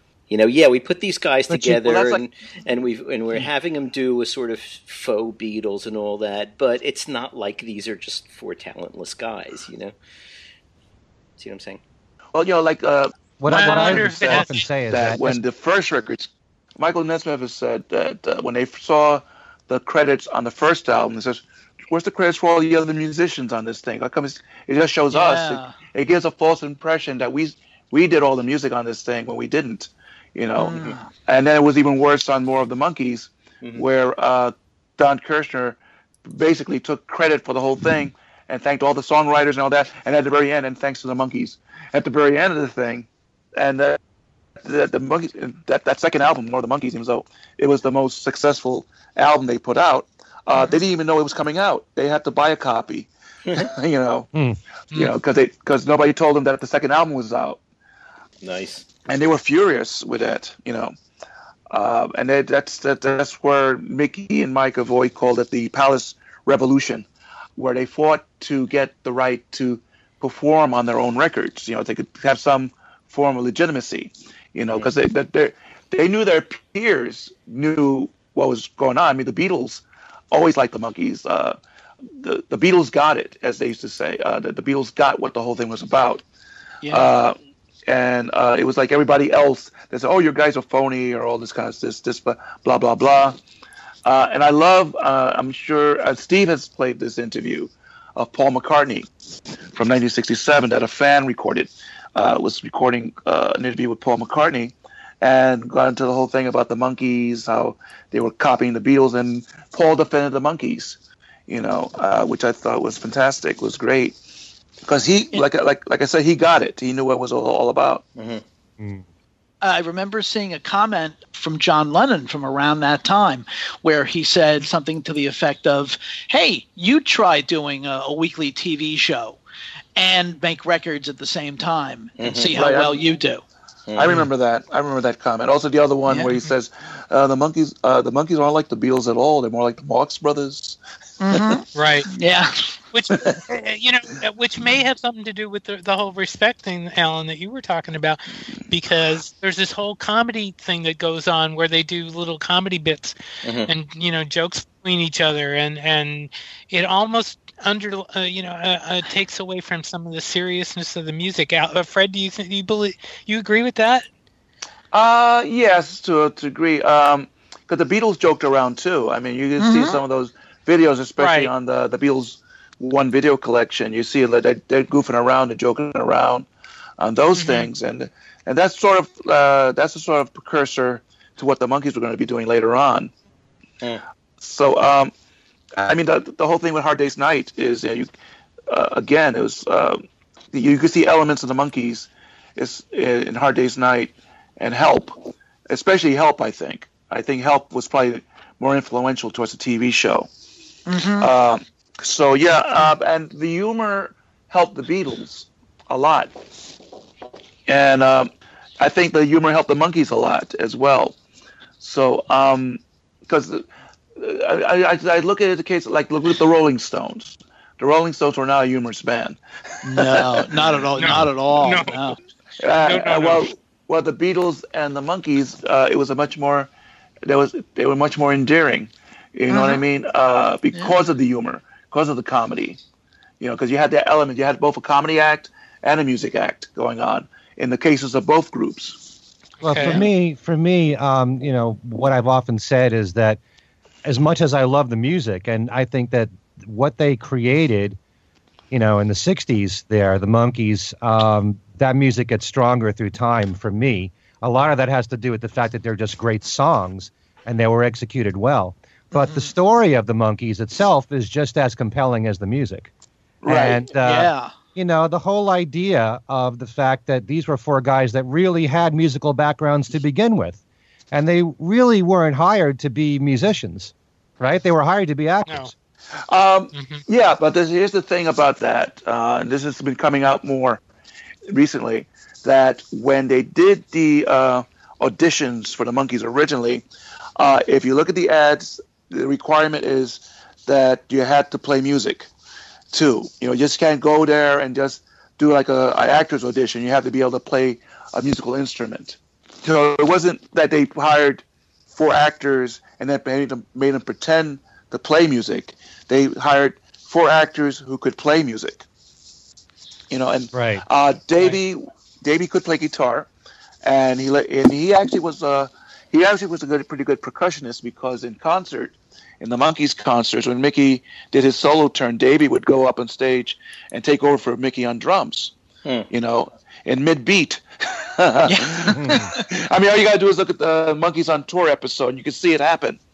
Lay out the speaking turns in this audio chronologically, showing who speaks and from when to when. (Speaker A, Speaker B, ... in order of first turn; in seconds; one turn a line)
Speaker A: 0.3-9.9
Speaker B: 1.5-1.8
Speaker C: 1.7-2.2
Speaker A: 11.4-11.8
Speaker C: 12.3-44.0
Speaker B: 13.4-15.4
Speaker D: 13.5-14.7
Speaker E: 25.1-25.8
Speaker E: 30.6-31.1
Speaker C: 44.6-54.3
Speaker B: 54.3-54.6
Speaker C: 54.9-57.6
Speaker A: 58.4-58.9
Speaker C: 59.1-60.9
Speaker C: 61.7-81.6
Speaker C: 82.2-86.2
Speaker E: 86.8-87.1
Speaker C: 86.9-87.3
Speaker C: 87.9-93.4
Speaker C: 94.0-99.1
Speaker C: 99.7-114.2
Speaker C: 114.8-118.0
Speaker A: 118.2-118.4
Speaker B: 118.8-119.0
Speaker E: 119.6-129.4
Speaker E: 129.9-133.4
Speaker A: 132.2-132.6
Speaker C: 132.5-133.0
Speaker A: 133.9-134.2
Speaker C: 133.9-140.8
Speaker E: 136.1-136.3
Speaker E: 141.2-142.8
Speaker D: 141.7-142.1
Speaker D: 142.9-164.1
Speaker C: 143.1-143.4
Speaker A: 153.4-153.7
Speaker C: 164.9-176.5
Speaker E: 169.6-170.0
Speaker D: 171.2-171.5
Speaker C: 177.0-183.1
Speaker D: 177.3-177.7
Speaker C: 184.4-185.1
Speaker C: 185.8-188.1
Speaker C: 188.7-195.2
Speaker C: 195.7-200.3
Speaker E: 200.8-201.3
Speaker C: 201.2-206.3
Speaker C: 207.7-211.2
Speaker C: 211.8-213.7
Speaker C: 214.2-220.6
Speaker E: 219.8-222.2
Speaker D: 220.9-222.2
Speaker C: 222.6-226.7
Speaker D: 222.8-223.4
Speaker C: 227.2-232.8
Speaker E: 229.5-229.8
Speaker C: 233.4-239.0
Speaker D: 239.6-240.0
Speaker B: 239.6-243.4
Speaker B: 244.0-248.0
Speaker B: 248.7-262.9
Speaker E: 259.1-259.5
Speaker C: 263.4-263.9
Speaker B: 263.5-270.6
Speaker E: 264.0-264.5
Speaker B: 271.1-275.7
Speaker C: 276.3-280.8
Speaker D: 276.7-277.0
Speaker C: 281.5-286.8
Speaker C: 287.4-292.3
Speaker C: 292.9-308.9
Speaker C: 310.1-313.3
Speaker B: 310.5-310.8
Speaker C: 313.8-325.5
Speaker C: 326.1-333.0
Speaker E: 328.4-329.4
Speaker B: 328.9-329.3